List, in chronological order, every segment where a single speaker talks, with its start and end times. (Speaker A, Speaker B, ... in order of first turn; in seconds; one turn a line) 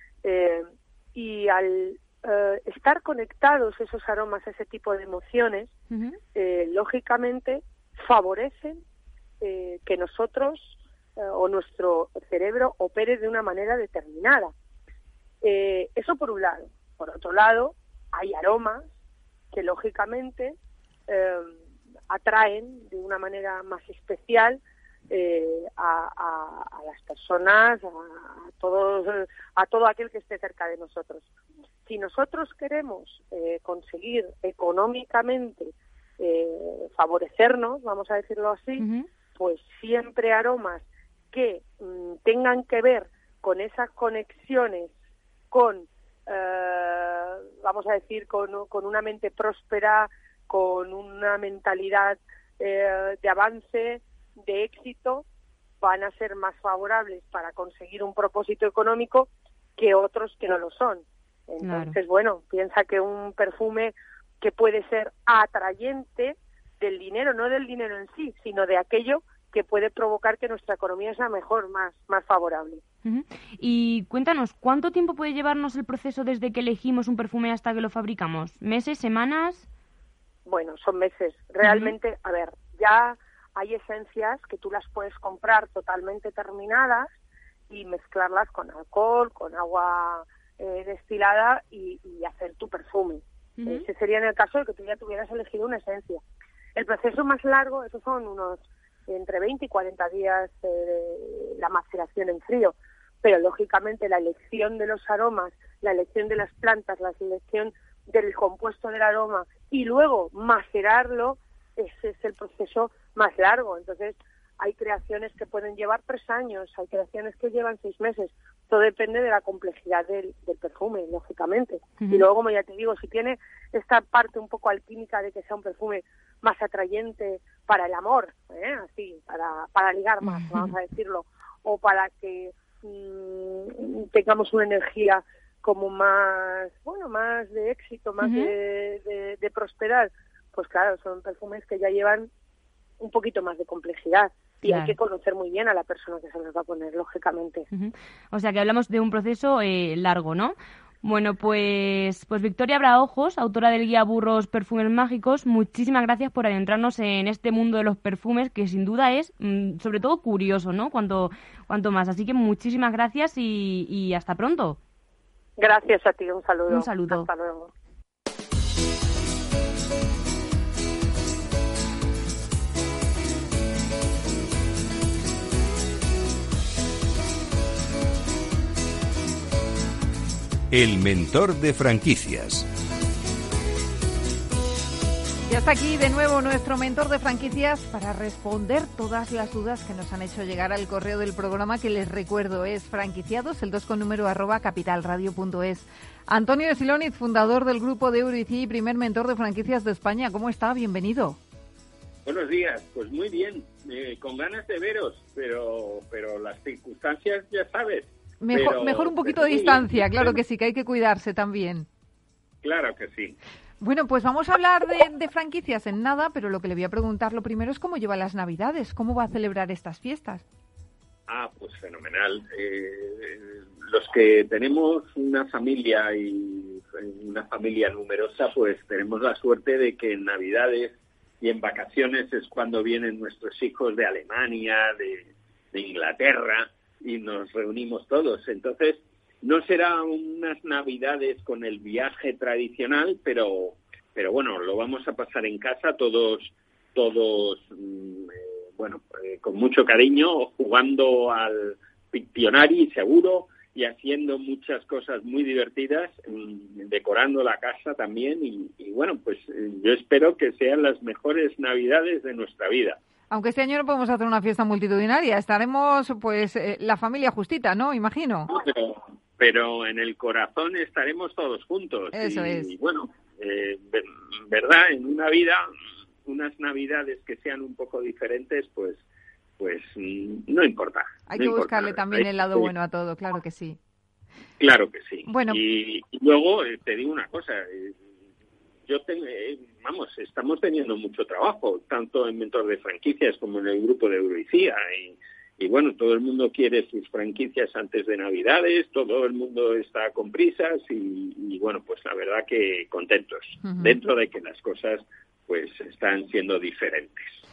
Speaker A: 0.2-5.7
Speaker B: 5.9-6.2
Speaker A: 6.3-8.8
Speaker A: 9.4-14.5
Speaker A: 15.4-18.9
Speaker A: 19.5-20.6
Speaker A: 21.1-21.6
Speaker A: 22.1-24.6
Speaker A: 25.1-31.3
Speaker A: 31.9-44.9
Speaker B: 38.8-39.1
Speaker A: 45.5-55.2
Speaker A: 55.8-72.8
Speaker B: 61.6-62.0
Speaker B: 73.0-79.7
Speaker A: 80.5-87.1
Speaker B: 81.6-81.9
Speaker A: 87.7-96.2
Speaker B: 93.6-93.9
Speaker A: 96.8-142.3
Speaker B: 122.0-122.2
Speaker B: 130.2-130.7
Speaker B: 138.2-138.5
Speaker A: 143.0-147.7
Speaker B: 144.6-145.0
Speaker B: 147.7-164.8
Speaker A: 165.6-167.7
Speaker B: 166.7-167.3
Speaker C: 180.7-182.7
Speaker D: 185.5-201.4
Speaker E: 202.3-210.4
Speaker D: 208.4-211.9
Speaker E: 212.6-213.4
Speaker D: 213.8-220.4
Speaker E: 221.3-263.0
Speaker D: 263.3-268.5
Speaker E: 268.5-275.7
Speaker D: 272.1-272.7
Speaker E: 276.3-279.0
Speaker E: 279.6-282.7
Speaker D: 281.3-283.8
Speaker E: 284.6-288.0
Speaker D: 285.3-285.6
Speaker E: 288.9-307.4
Speaker D: 303.6-304.0